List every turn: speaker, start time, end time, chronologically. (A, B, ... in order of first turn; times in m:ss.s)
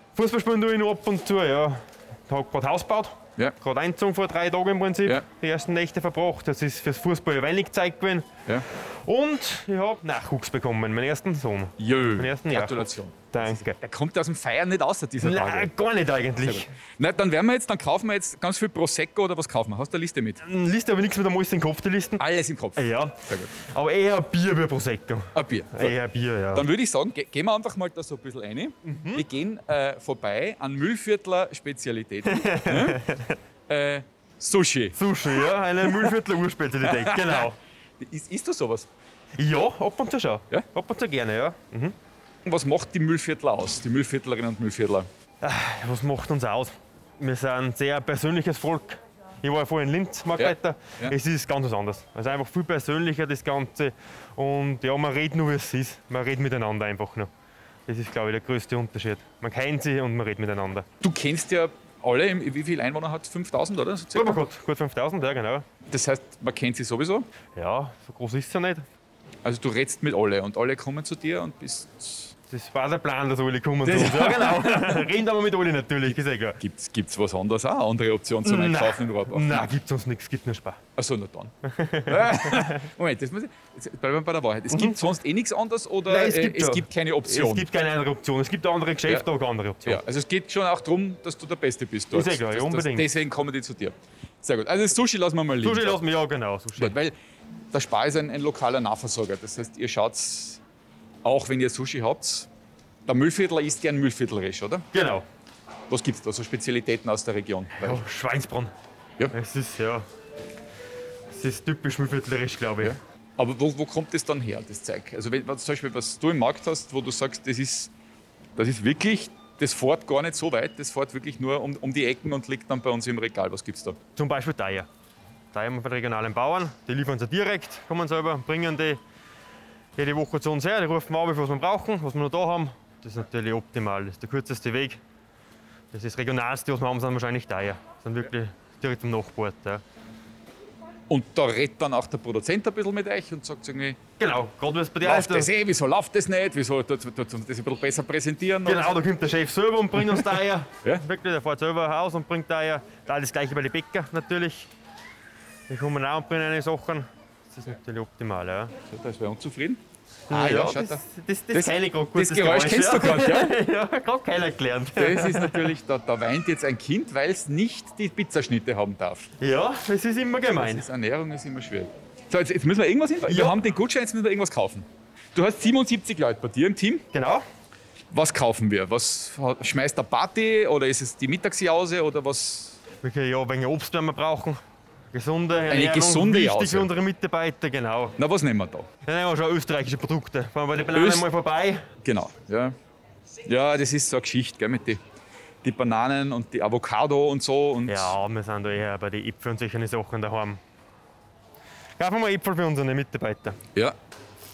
0:00.2-0:08.3 A
0:08.8-0:13.8 A
0:11.8-0:15.7 B
0:15.2-0:16.7 A
0:16.4-0:20.4 B
0:20.4-0:22.2 A
0:22.2-0:23.5 B
0:22.8-0:26.6 A
0:25.3-0:25.9 B
0:26.5-0:33.0 B
0:28.8-0:29.2 A
0:32.2-0:33.4 A
0:33.7-0:36.1 B
0:34.9-0:37.6 A
0:36.8-0:37.4 B
0:38.0-0:38.9 B
0:39.4-0:41.9 A
0:42.4-0:45.1 B
0:45.4-0:57.3 A
0:50.4-0:51.1 B
0:57.9-1:00.8 A
1:01.0-1:04.4 B
1:04.1-1:05.6 A
1:05.9-1:07.3 B
1:07.6-1:08.8 A
1:09.4-1:12.3 B
1:12.5-1:16.6 A
1:13.8-1:15.1 B
1:16.6-1:19.7 B
1:18.4-1:20.8 A
1:21.0-1:21.5 B
1:21.6-1:22.8 A
1:22.1-1:27.7 B
1:24.7-1:25.0 A
1:26.1-1:30.0 A
1:29.8-1:36.0 B
1:32.1-1:33.1 A
1:35.6-1:36.9 A
1:36.8-1:37.1 B
1:37.7-1:40.6 B
1:41.2-1:42.5 B
1:43.0-1:44.8 B
1:44.9-1:45.2 A
1:45.9-1:48.0 B
1:47.8-1:48.7 A
1:49.3-1:50.0 A
1:51.3-1:52.9 A
1:52.8-1:57.9 B
1:58.6-2:04.0 B
2:04.2-2:04.9 A
2:05.5-2:09.0 A
2:10.0-2:15.0 A
2:15.9-2:19.8 A
2:21.1-2:24.0 B
2:24.2-2:25.5 A
2:25.0-2:29.0 B
2:28.6-2:34.7 A
2:35.7-2:38.7 A
2:38.9-2:41.0 B
2:40.3-2:45.7 A
2:41.5-2:43.5 B
2:45.0-2:49.3 B
2:49.4-2:50.8 A
2:50.5-2:57.0 B
2:53.2-2:53.6 A
2:57.1-2:57.4 A
2:58.1-3:02.8 B
3:03.0-3:04.6 A
3:05.1-3:08.2 A
3:05.7-3:06.9 B
3:08.2-3:08.9 B
3:09.0-3:11.8 A
3:10.9-3:11.2 B
3:12.0-3:12.7 B
3:13.4-3:15.0 B
3:15.6-3:18.1 B
3:17.9-3:20.6 A
3:22.0-3:23.6 A